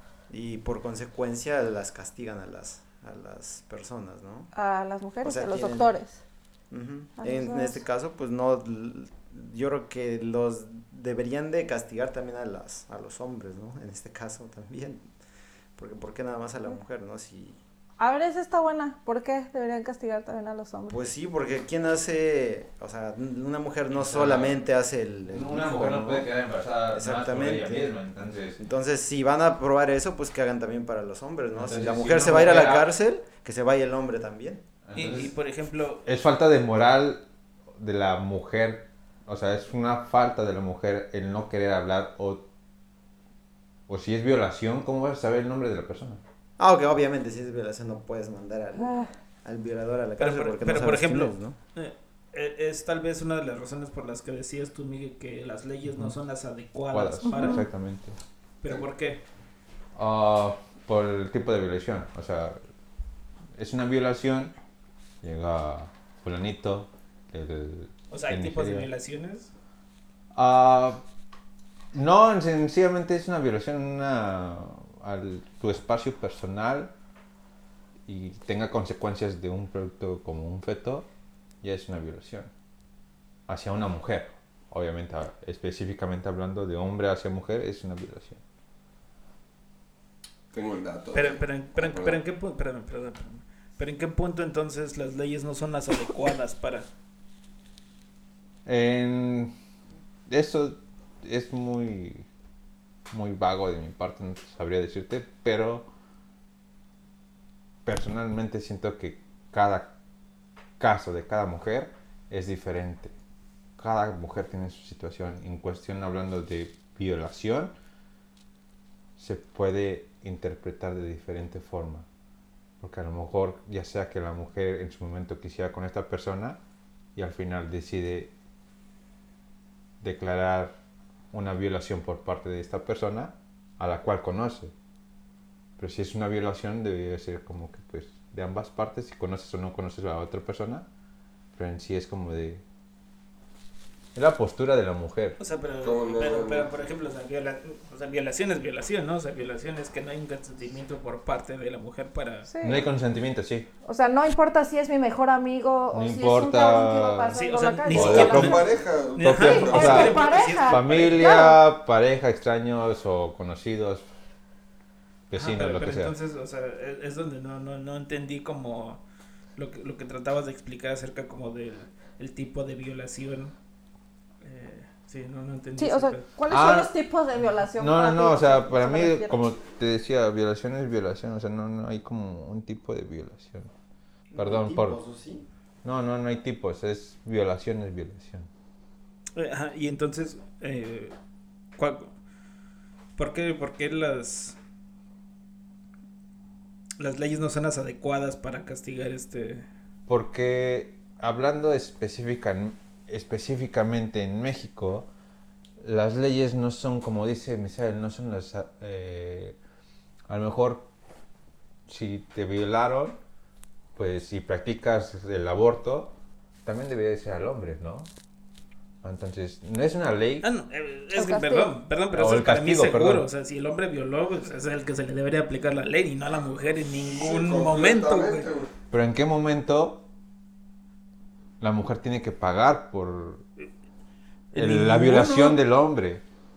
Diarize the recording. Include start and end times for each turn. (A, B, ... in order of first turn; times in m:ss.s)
0:00.3-0:04.5 A
0:04.5-0:06.2 B
0:05.2-0:06.0 A
0:06.7-0:15.1 A
0:07.2-0:07.8 B
0:15.8-0:17.6 A
0:18.0-0:21.0 B
0:20.9-0:34.6 A
0:23.9-0:24.6 C
0:25.3-0:28.6 C
0:31.5-0:32.9 C
0:31.8-0:32.9 D
0:34.8-0:35.4 C
0:34.9-0:36.0 D
0:36.0-0:42.4 C
0:43.9-0:46.2 C
0:46.6-0:51.6 A
0:50.2-0:57.7 D
0:56.9-0:58.2 C
0:57.3-0:57.7 B
0:58.6-0:59.2 D
0:59.9-1:02.6 C
1:03.6-1:04.5 C
1:05.2-1:08.9 C
1:08.1-1:09.5 D
1:10.3-1:11.0 C
1:11.9-1:16.9 C
1:18.0-1:21.1 C
1:21.6-1:22.5 C
1:23.5-1:28.4 C
1:30.5-1:32.2 E
1:31.1-1:36.9 D
1:38.6-1:39.5 C
1:40.3-1:42.3 C
1:43.1-1:45.9 C
1:47.8-1:49.9 C
1:50.8-1:53.1 C
1:53.8-1:57.7 C
1:59.2-2:02.0 C
2:02.8-2:06.6 C
2:07.2-2:08.3 C
2:10.0-2:10.8 C
2:11.3-2:14.7 C
2:15.8-2:20.9 C
2:21.5-2:22.6 C
2:24.1-2:25.4 C
2:25.4-2:32.5 D
2:25.8-2:27.1 E
2:32.5-2:32.8 B
2:32.6-2:33.7 C
2:33.8-2:38.5 B
2:35.9-2:37.3 C
2:37.3-2:41.5 D
2:37.9-2:44.0 C
2:38.0-2:40.2 E
2:39.4-2:41.6 B
2:45.3-2:46.1 C
2:45.3-2:49.0 D
2:49.6-2:53.5 D
2:54.4-2:56.2 D
2:55.8-2:59.5 B
2:56.5-2:57.0 C
2:57.8-3:03.7 C
3:04.3-3:05.5 A
3:04.4-3:05.0 C
3:05.8-3:08.5 C
3:09.3-3:11.2 D
3:11.8-3:12.1 D
3:13.2-3:14.6 D
3:17.0-3:19.7 D
3:20.1-3:25.1 C
3:25.8-3:29.6 C
3:30.3-3:30.9 C
3:31.9-3:33.2 C
3:34.0-3:36.1 C
3:36.6-3:38.1 C
3:39.0-3:40.4 C
3:40.4-3:48.5 D
3:41.1-3:41.8 B
3:42.1-3:43.3 C
3:47.1-3:48.7 E
3:48.9-3:50.0 C
3:51.6-3:53.4 C
3:54.5-3:55.6 D
3:54.5-3:56.2 C